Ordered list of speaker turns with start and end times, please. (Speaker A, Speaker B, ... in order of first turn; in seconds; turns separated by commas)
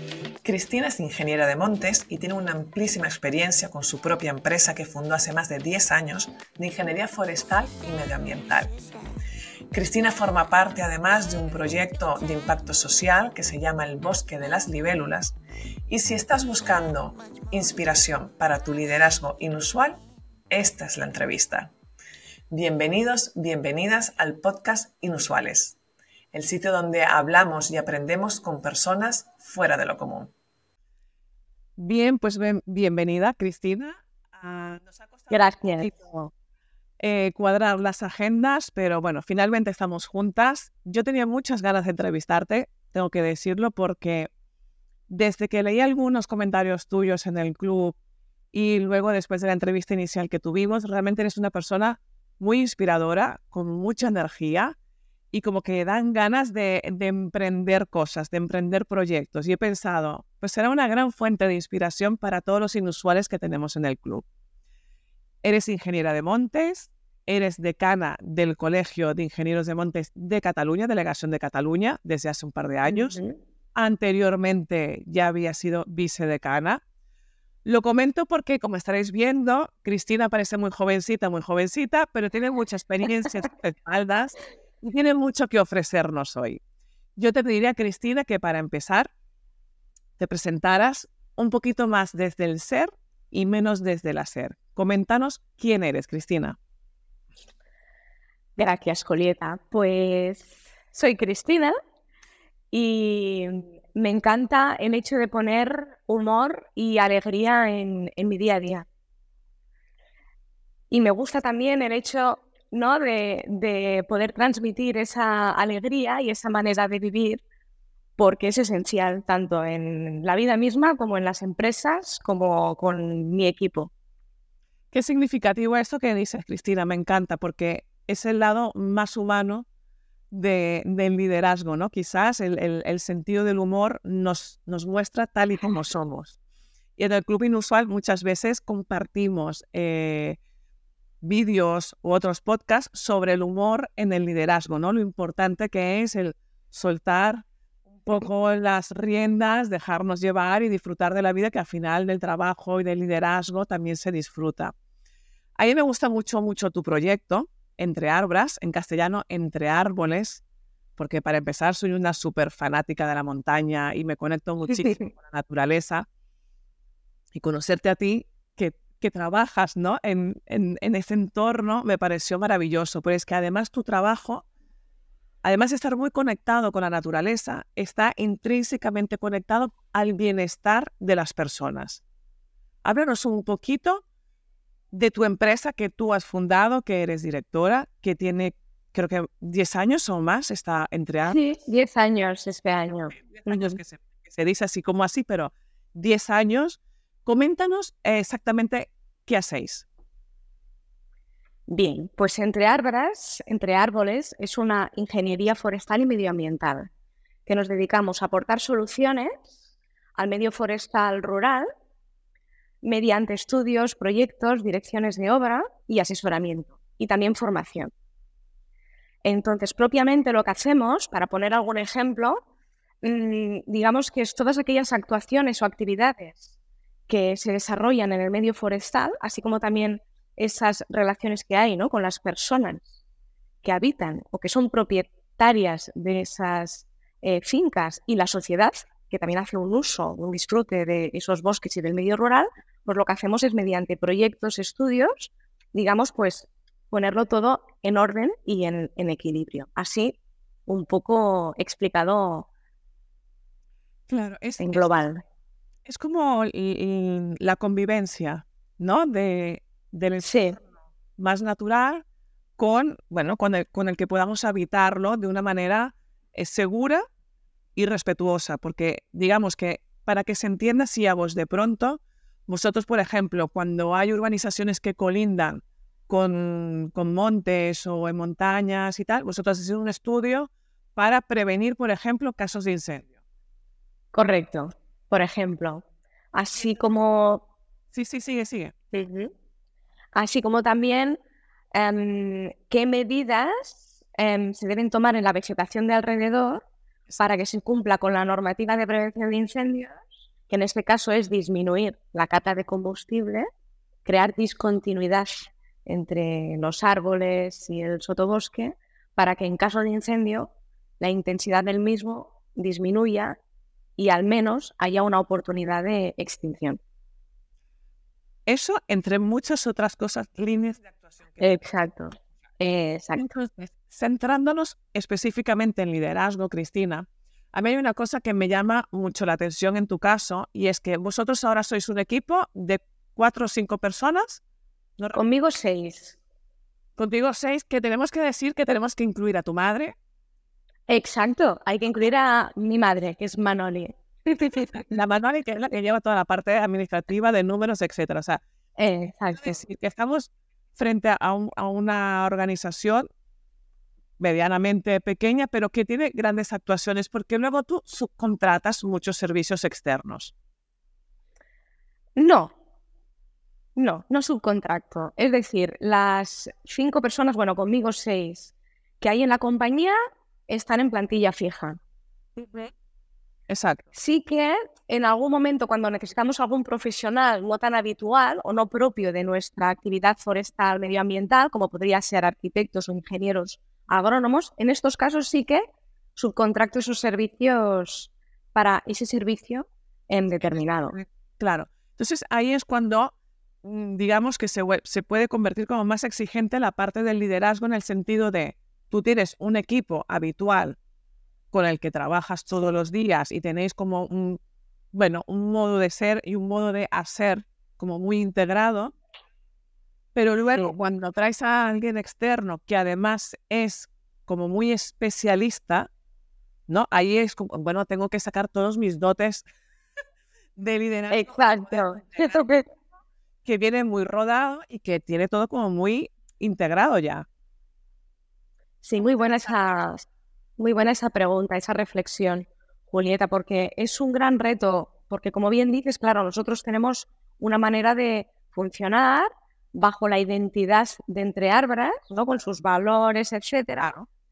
Speaker A: 0.4-8.7, Speaker A: 9.7-15.3, Speaker A: 15.9-21.7, Speaker A: 22.5-25.7, Speaker A: 26.3-30.3, Speaker B: 31.8-36.3, Speaker C: 35.3-35.9, Speaker B: 37.0-44.3, Speaker B: 45.1-48.0, Speaker B: 48.5-54.7, Speaker B: 55.3-64.2, Speaker B: 65.4-73.2, Speaker C: 72.8-73.4, Speaker B: 73.7-76.8, Speaker B: 77.6-86.6, Speaker B: 87.2-89.1, Speaker B: 90.2-96.6, Speaker C: 98.6-101.7, Speaker C: 102.7-108.9, Speaker C: 110.9-117.4, Speaker C: 118.2-123.9, Speaker B: 124.9-129.7, Speaker B: 130.3-136.3, Speaker B: 137.0-140.4, Speaker B: 141.2-147.4, Speaker B: 147.9-154.7, Speaker B: 155.6-160.4, Speaker B: 161.0-166.0, Speaker B: 167.3-174.4, Speaker B: 175.4-182.0, Speaker B: 182.8-184.0, Speaker B: 184.9-191.4, Speaker C: 191.3-193.8, Speaker B: 193.1-199.8, Speaker C: 201.7-206.9, Speaker C: 207.4-209.4, Speaker C: 210.2-211.7, Speaker C: 212.8-217.9, Speaker C: 219.2-222.4, Speaker C: 223.0-226.5, Speaker C: 227.1-232.9, Speaker C: 233.6-252.5, Speaker B: 254.1-254.9, Speaker C: 254.6-255.2, Speaker B: 255.8-260.4, Speaker C: 260.2-260.6, Speaker B: 261.2-262.0, Speaker B: 262.6-267.0, Speaker B: 267.8-283.1, Speaker C: 284.1-285.8, Speaker C: 286.3-287.4, Speaker B: 287.9-288.7, Speaker C: 288.9-289.3, Speaker C: 290.1-291.2, Speaker C: 291.7-296.6, Speaker C: 297.2-300.0, Speaker C: 300.5-303.5, Speaker C: 304.0-313.4, Speaker C: 314.0-316.8, Speaker B: 318.4-321.5, Speaker C: 321.4-323.2, Speaker B: 323.1-334.4, Speaker C: 335.1-336.2, Speaker B: 337.0-339.9, Speaker C: 340.9-344.9, Speaker B: 344.9-348.4, Speaker C: 348.8-349.5, Speaker B: 349.4-353.1, Speaker B: 354.2-360.3, Speaker C: 362.2-362.5, Speaker C: 363.8-369.9, Speaker C: 370.5-371.8, Speaker B: 372.4-372.7, Speaker B: 373.5-373.9, Speaker C: 373.9-385.6, Speaker C: 386.1-391.0, Speaker B: 391.4-400.8, Speaker B: 401.5-404.4, Speaker B: 404.9-408.9, Speaker B: 410.1-415.9, Speaker B: 416.7-419.4, Speaker B: 420.6-422.4, Speaker C: 421.1-422.6, Speaker B: 423.4-427.2, Speaker C: 428.8-430.1, Speaker B: 429.0-429.6, Speaker C: 430.6-444.0